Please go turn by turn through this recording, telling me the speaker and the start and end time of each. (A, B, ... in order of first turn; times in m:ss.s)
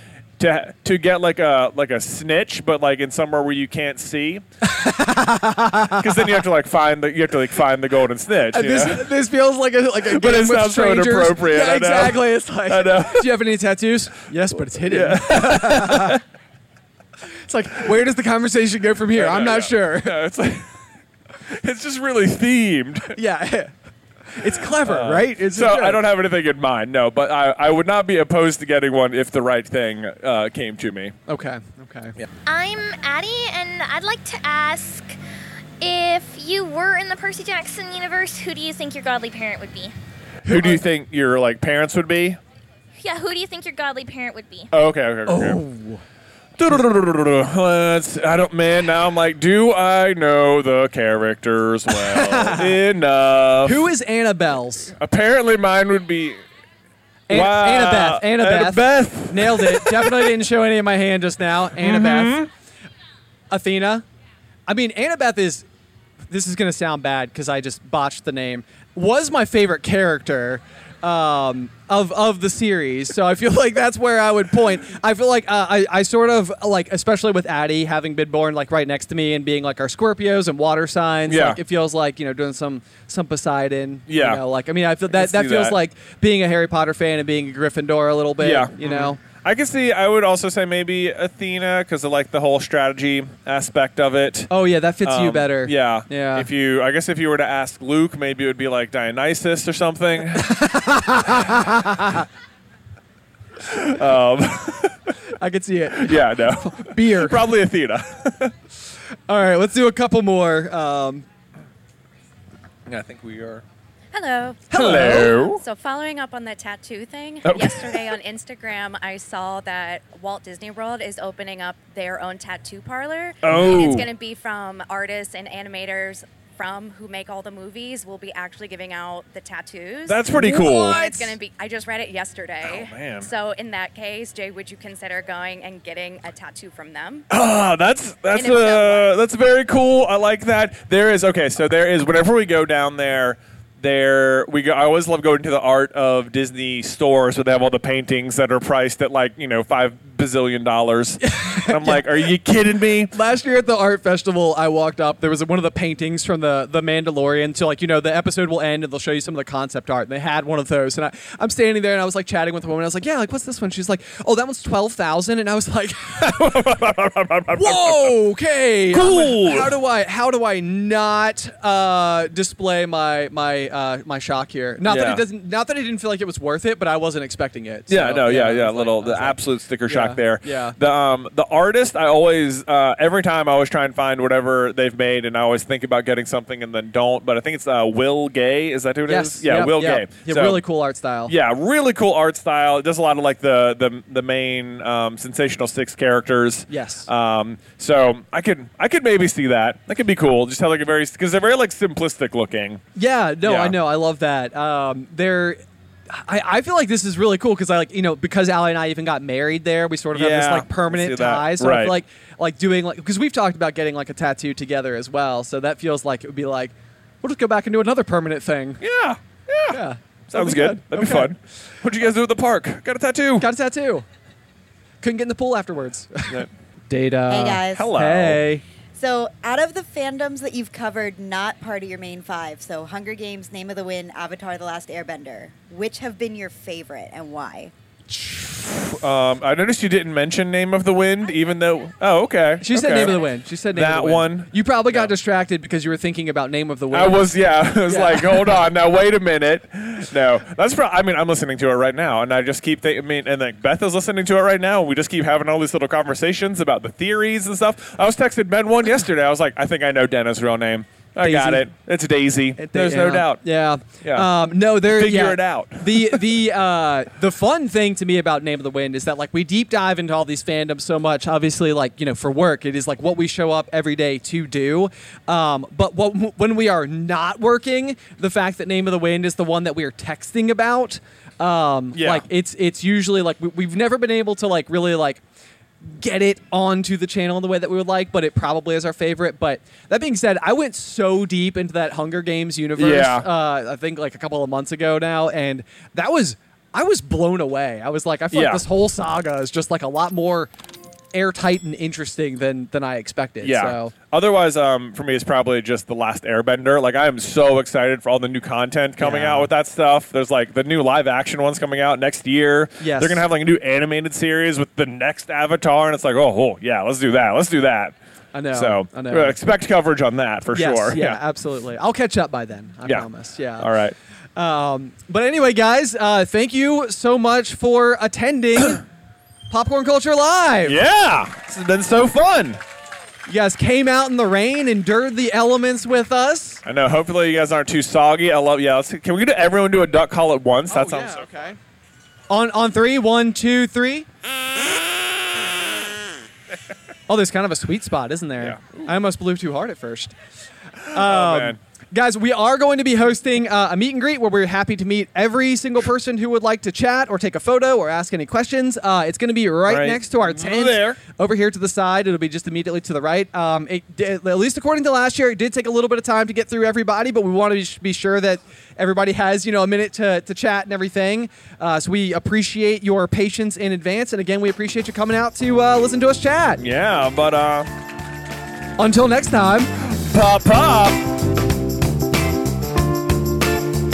0:00.4-0:04.4 A
0:04.6-0:06.3 B
0:05.9-0:09.1 A
0:08.5-0:16.2 B
0:10.0-0:13.4 A
0:14.8-0:16.2 A
0:17.5-0:20.2 B
0:19.1-0:20.7 A
0:21.5-0:23.2 A
0:23.1-0:23.7 B
0:24.3-0:26.0 B
0:24.4-0:31.2 A
0:31.3-0:32.2 B
0:32.4-0:35.2 C
0:35.8-0:39.9 C
0:40.4-0:42.4 A
0:40.4-0:40.8 B
0:43.0-0:44.7 C
0:44.7-0:45.6 A
0:45.3-0:46.0 B
0:46.6-0:53.9 A
0:52.0-0:52.8 B
0:53.6-0:54.9 B
0:55.0-0:56.4 A
0:57.3-1:00.3 A
0:57.3-1:02.4 B
1:01.8-1:02.5 A
1:03.5-1:04.0 B
1:04.7-1:05.6 B
1:06.3-1:29.2 B
1:21.3-1:21.6 A
1:24.1-1:24.4 A
1:25.1-1:25.8 A
1:28.4-1:34.5 A
1:34.5-1:36.5 B
1:35.0-1:40.7 A
1:40.3-1:42.2 B
1:43.6-1:45.1 A
1:45.4-1:47.4 B
1:45.9-1:48.5 A
1:49.3-1:51.2 B
1:52.9-1:53.6 A
1:54.1-2:17.3 D
1:54.7-1:55.4 B
1:54.7-1:55.6 A
1:57.4-1:58.1 A
2:03.4-2:04.1 A
2:10.0-2:11.3 A
2:10.4-2:11.3 B
2:12.6-2:13.3 A
2:17.3-2:33.1 A
2:18.3-2:19.1 D
2:31.2-2:32.3 B
2:33.1-2:46.3 B
2:46.1-2:48.1 A
2:47.5-3:00.7 B
2:48.9-2:49.7 A
2:54.8-2:55.2 A
2:57.9-3:10.6 A
3:09.1-3:11.3 B
3:11.2-3:22.8 A
3:16.7-3:17.1 B
3:23.0-3:38.8 B
3:23.4-3:23.8 A
3:30.1-3:32.0 A
3:38.8-3:43.4 A
3:39.7-3:41.3 B
3:43.4-3:44.0 B
3:45.0-3:48.6 B
3:47.3-3:47.9 E
3:47.7-3:48.4 A
3:48.9-3:57.7 E
3:58.1-4:05.1 A
4:02.6-4:07.2 B
4:06.9-4:26.2 A
4:07.8-4:08.5 B
4:21.2-4:21.7 B
4:22.6-4:45.2 B
4:41.9-4:42.2 A
4:45.8-5:00.5 B
4:52.8-4:53.3 A
4:58.3-4:58.6 A
5:01.1-5:03.9 B
5:03.4-5:17.9 A
5:09.0-5:09.5 B
5:12.8-5:13.2 B
5:18.3-5:19.4 B
5:18.5-5:21.2 A
5:20.5-5:23.7 B
5:23.6-5:23.9 A
5:24.4-5:28.8 B
5:29.5-5:30.8 B
5:30.6-5:32.6 A
5:33.3-5:36.6 B
5:36.6-5:41.5 A
5:40.7-5:41.6 B
5:42.3-5:44.1 B
5:47.1-5:50.1 B
5:48.4-5:48.9 A
5:50.8-5:51.6 A
5:50.9-6:16.6 B
5:59.7-6:01.0 A
6:16.6-6:17.7 A
6:18.8-6:19.9 B
6:20.0-6:21.1 A